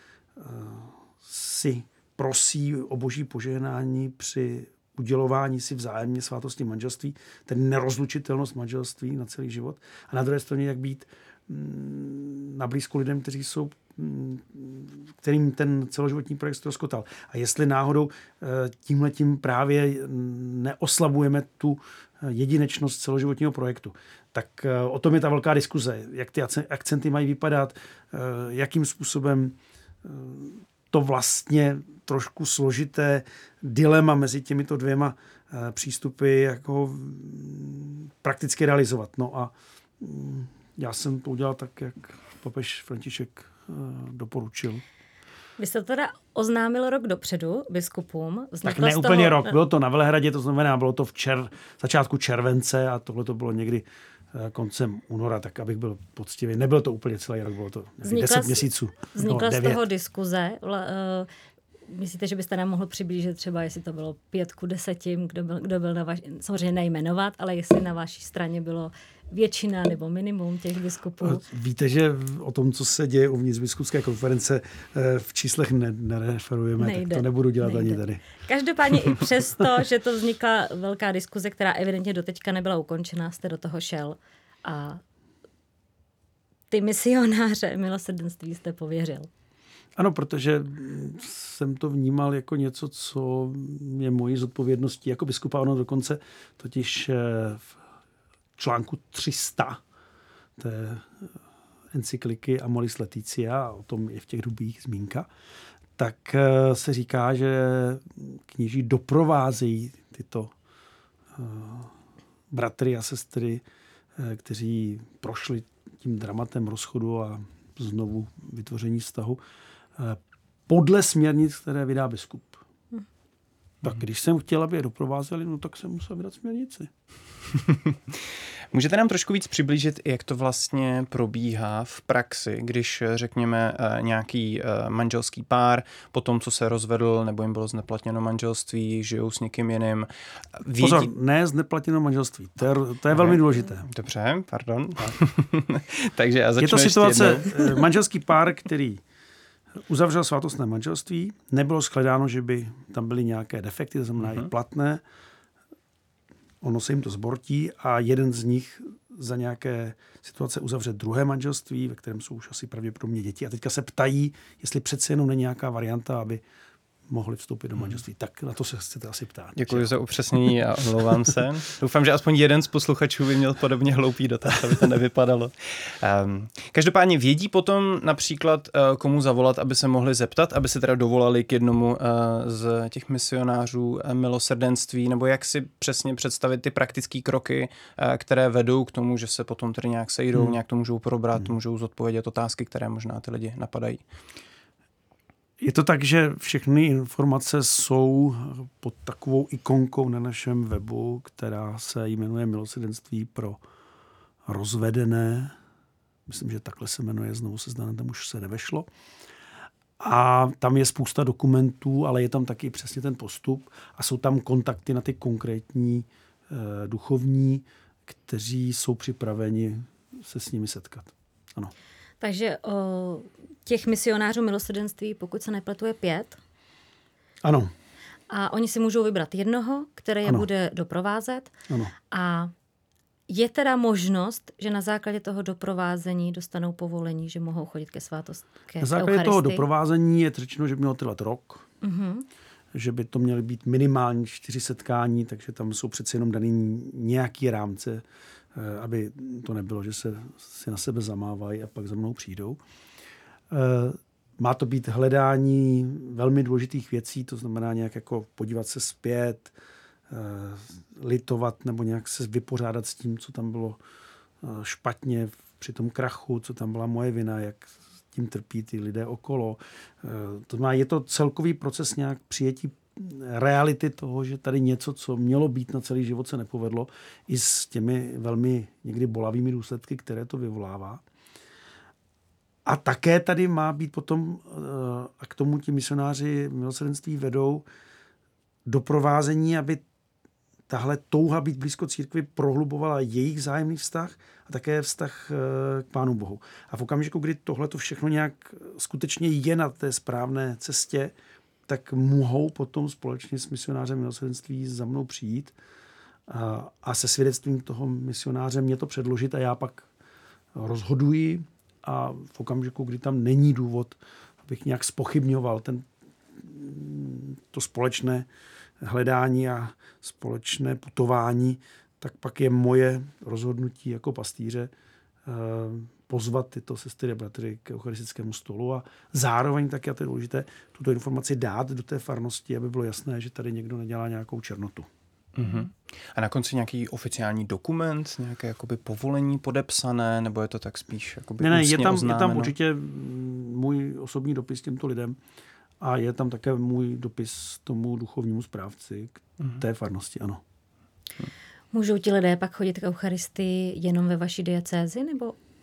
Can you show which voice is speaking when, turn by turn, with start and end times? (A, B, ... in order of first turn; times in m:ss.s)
0:00.4-0:44.8 A
0:45.6-0:49.5 B
0:48.6-0:59.8 A
0:58.0-1:01.3 B
1:01.9-1:11.4 B
1:11.2-1:18.2 A
1:16.8-1:25.0 B
1:26.7-1:29.3 B
1:30.0-1:37.7 A
1:38.6-1:39.8 A
1:40.6-1:41.3 A
1:41.9-1:45.3 A
1:46.0-1:50.5 A
1:51.3-1:51.9 A
1:52.5-1:53.6 A
1:54.2-1:59.4 A
2:00.0-2:02.6 A
2:03.8-2:06.9 A
2:07.5-2:21.1 C
2:20.8-2:23.8 A
2:23.1-2:27.9 C
2:26.6-2:29.0 A
2:29.9-2:35.0 A
2:36.6-2:46.4 A
2:47.1-2:49.9 A
2:49.6-3:14.0 C
3:15.6-3:23.6 A
3:24.4-3:25.6 A
3:26.3-3:28.9 A
3:30.0-3:41.7 A
3:42.2-3:46.4 B
3:47.4-3:47.7 A
3:48.3-3:51.5 B
3:52.1-3:52.5 B
3:53.3-3:59.6 B
3:58.8-4:01.6 A
4:01.8-4:02.3 B
4:02.7-4:12.6 A
4:13.5-4:19.5 A
4:20.1-4:23.8 A
4:24.4-4:41.0 A
4:42.6-4:47.6 A
4:48.6-4:49.8 A
4:50.7-5:01.1 A
5:01.7-5:05.5 A
5:06.3-5:09.9 A
5:10.5-5:18.3 A
5:18.8-5:24.7 A
5:25.2-5:34.9 A
5:35.4-5:42.5 C
5:41.4-5:45.2 A
5:45.8-5:50.4 A
5:51.7-5:55.4 B